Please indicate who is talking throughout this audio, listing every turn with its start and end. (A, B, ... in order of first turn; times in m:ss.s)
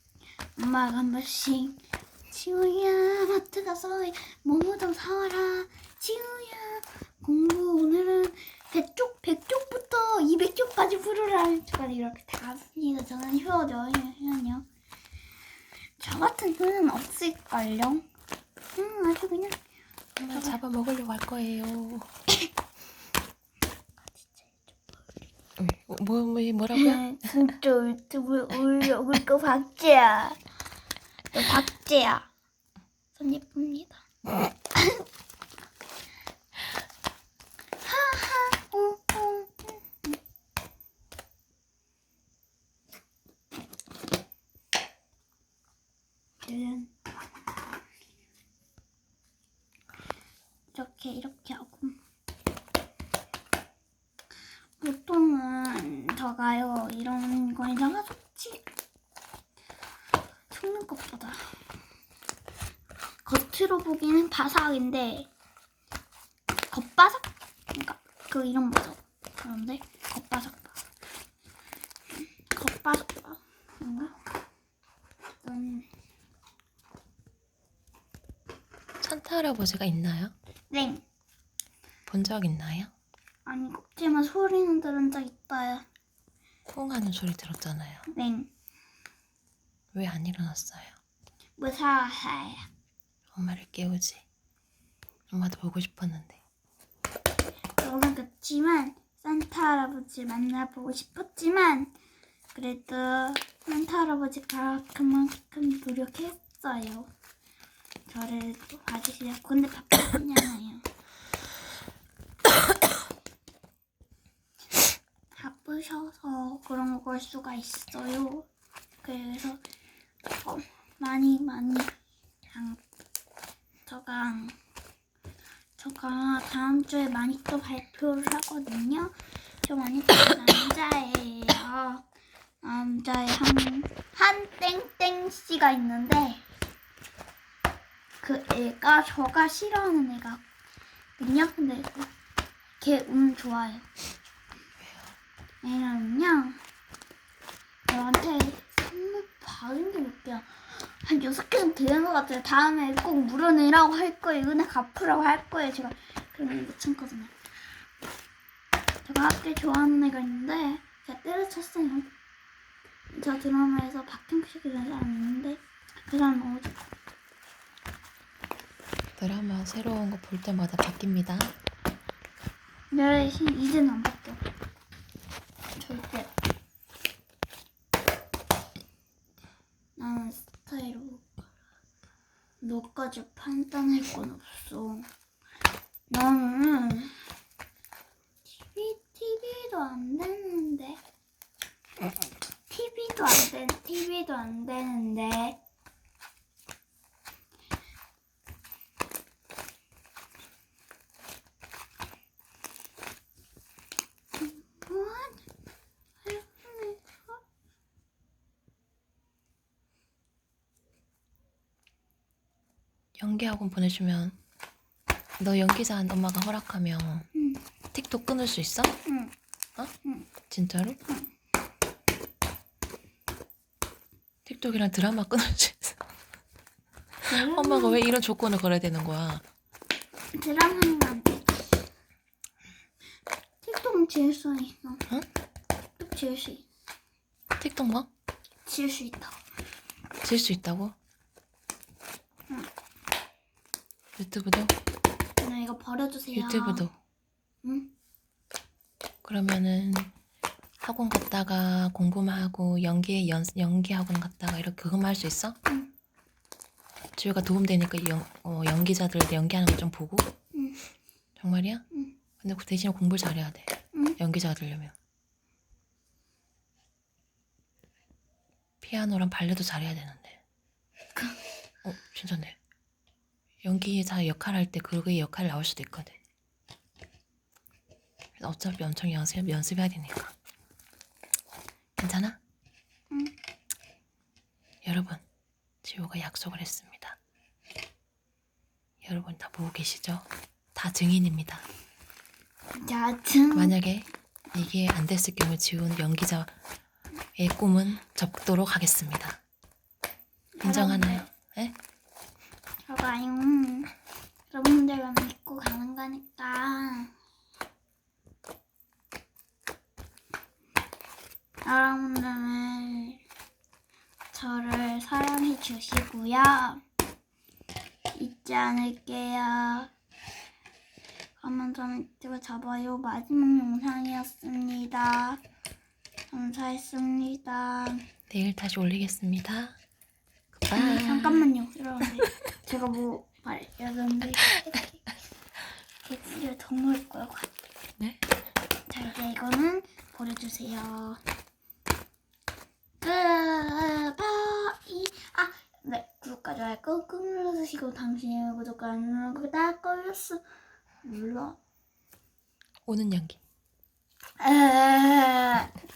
0:00.6-0:14.7 A
0:16.0-0:18.0 A
0:18.8-0:19.6 A
0:20.2-0:22.1 B
0:20.3-0:20.6 A
0:24.2-0:24.8 A
0:25.6-0:27.1 B
0:26.8-0:30.4 A
0:31.3-0:32.3 A
0:33.2-0:35.0 A
0:37.8-0:40.2 A
0:46.4-0:46.9 A
0:50.7-0:52.0 A
0:54.8-0:58.6 A
1:00.5-1:01.6 A
1:03.2-1:05.3 A
1:06.7-1:10.8 A
1:12.5-1:14.2 A
1:15.4-1:15.9 A
1:19.0-1:20.3 B
1:20.7-1:21.0 A
1:22.1-1:22.9 B
1:23.5-1:25.8 A
1:26.7-1:28.1 B
1:28.1-1:28.5 A
1:29.9-1:31.0 B
1:31.6-1:32.7 A
1:33.3-1:34.2 B
1:35.3-1:36.4 B
1:37.8-1:41.9 A
1:42.5-1:47.1 A
1:48.1-1:50.8 A
1:55.3-1:58.5 A
1:59.0-1:59.6 A
2:00.4-2:01.9 A
2:02.5-2:02.8 A
2:03.9-2:04.6 A
2:05.8-2:12.0 A
2:12.6-2:16.4 A
2:18.2-2:20.4 A
2:21.2-2:22.1 A
2:22.8-2:23.9 A
2:24.8-2:25.2 B
2:25.6-2:26.6 A
2:27.9-2:37.3 A
2:39.0-2:42.1 A
2:43.1-2:46.8 A
2:49.2-2:51.5 B
2:52.9-2:54.4 A
2:55.8-2:56.3 A
3:00.0-3:01.4 A
3:02.6-3:05.1 A
3:06.1-3:07.2 A
3:08.5-3:11.0 A
3:12.7-3:15.6 A
3:24.4-3:25.4 A
3:26.2-3:27.4 A
3:33.2-3:34.4 B
3:35.4-3:37.3 B
3:37.3-3:37.6 A
3:37.9-3:39.0 B
3:39.1-3:39.3 A
3:40.5-3:41.0 B
3:44.4-3:46.0 B
3:47.3-3:48.0 A
3:47.3-3:49.4 B
3:50.3-3:51.8 A
3:53.6-3:55.0 A
3:56.0-3:56.7 A
3:57.6-3:58.1 B
3:58.7-3:59.4 A
4:00.2-4:01.0 B
4:04.2-4:04.7 B
4:05.4-4:06.8 A
4:06.3-4:06.9 B
4:07.6-4:07.9 A
4:09.2-4:10.1 B
4:10.8-4:15.6 B
4:17.2-4:20.3 B
4:20.5-4:20.8 A
4:21.4-4:21.8 B
4:22.4-4:24.9 B
4:28.8-4:30.4 B
4:31.8-4:32.6 B
4:33.6-4:36.2 B
4:38.4-4:40.4 B
4:42.0-4:42.4 B
4:44.8-4:45.2 B
4:45.8-4:47.2 B
4:49.0-4:51.6 B
4:52.8-4:53.8 A
4:53.5-4:56.5 B
4:57.4-4:59.4 B
5:00.6-5:01.3 A
5:00.6-5:01.8 B
5:02.9-5:03.9 A
5:04.5-5:07.1 A
5:11.6-5:13.2 A
5:14.3-5:16.8 A
5:18.1-5:19.9 A
5:21.4-5:25.4 A
5:26.3-5:28.0 A
5:28.3-5:29.8 B
5:30.6-5:31.5 B
5:30.7-5:35.1 A
5:36.0-5:37.5 A
5:38.9-5:41.2 A
5:43.0-5:50.4 A
5:51.0-5:51.6 A
5:52.9-5:53.4 B
5:54.4-5:55.8 A